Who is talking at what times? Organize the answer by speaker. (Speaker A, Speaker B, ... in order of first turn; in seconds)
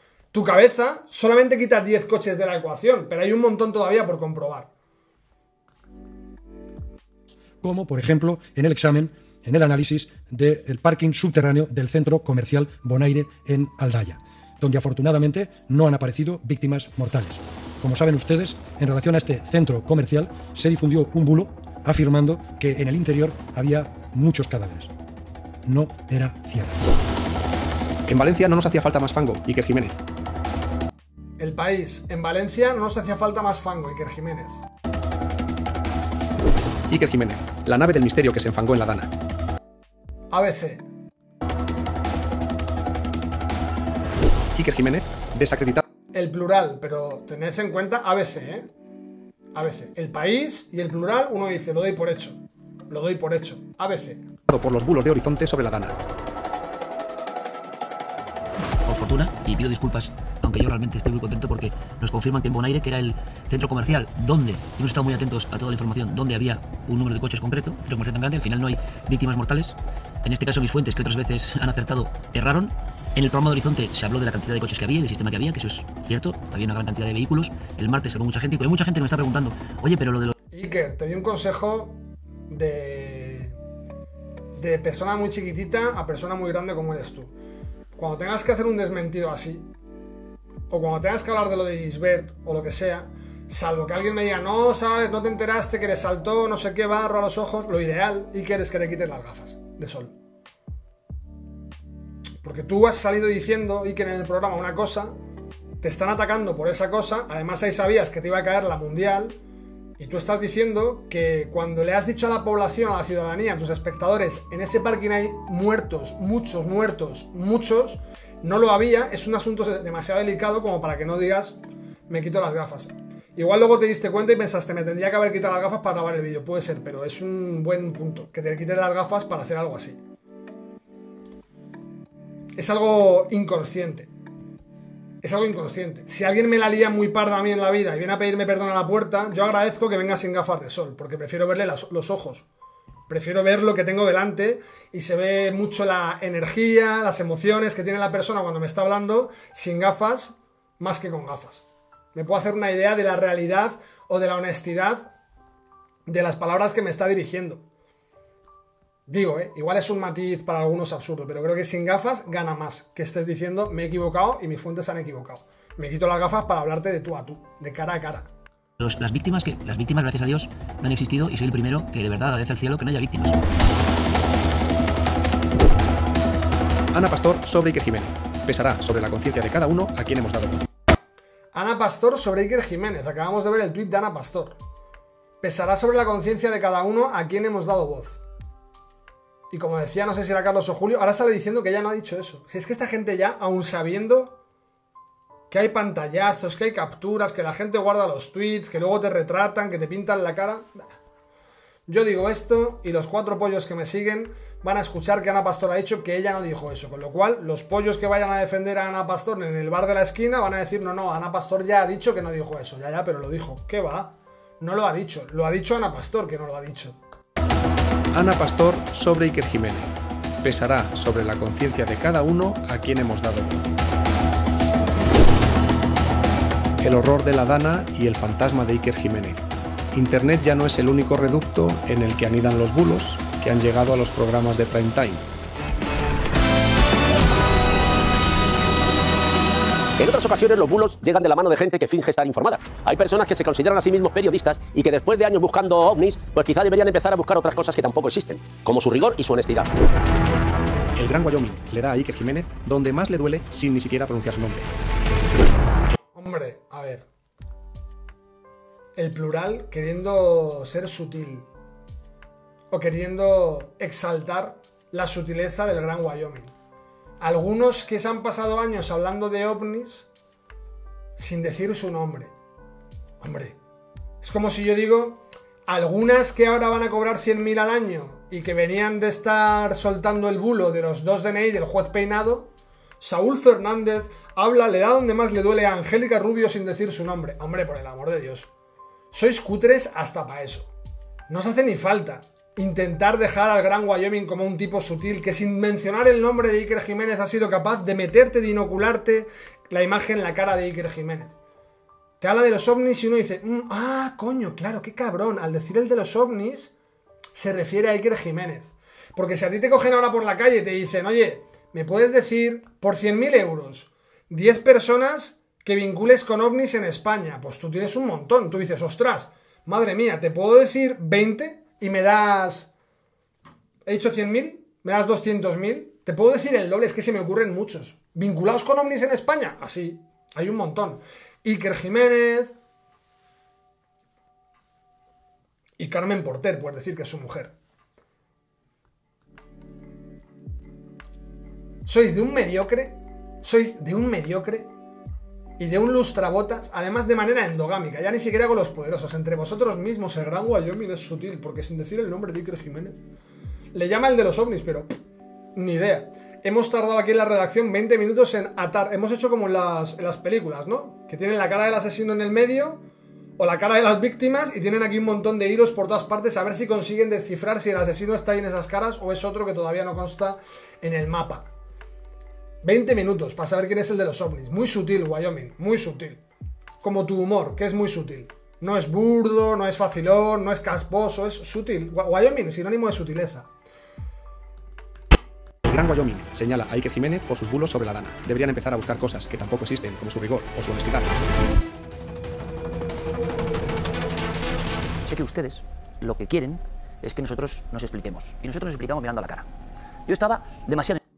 Speaker A: 0.3-4.7, 31.4-34.6, 40.3-40.9, 46.1-48.7, 49.5-52.4, 52.9-54.2, 80.5-83.6, 84.5-87.3, 88.0-89.7, 90.7-100.1, 102.4-105.2, 105.8-109.4, 110.0-130.0, 132.6-134.1, 135.2-142.4, 143.1-155.1, 156.1-157.6, 159.1-168.3, 181.5-184.6, 185.4-188.2, 189.5-194.4, 195.5-200.9, 201.9-217.0, 256.1-257.1, 259.0-261.5, 262.7-266.5, 267.2-270.1, 271.2-272.3, 273.2-273.6, 274.2-282.5, 283.0-288.5, 289.1-290.7, 291.3-301.4, 302.2-306.7, 307.4-322.7, 323.9-332.6, 335.8-337.5, 341.9-344.7, 345.6-353.0, 353.7-354.9, 355.6-362.8, 363.4-371.5, 372.6-376.2, 376.8-383.5
Speaker B: 7.6-24.9, 25.6-26.8
Speaker C: 28.1-30.0, 36.9-39.1, 44.5-45.8, 54.5-56.0, 176.9-180.7, 218.1-223.8, 226.8-235.2, 251.0-254.7, 385.7-391.1
Speaker D: 58.9-80.3, 168.8-173.4, 395.1-399.5, 400.1-401.0
Speaker E: 240.0-249.7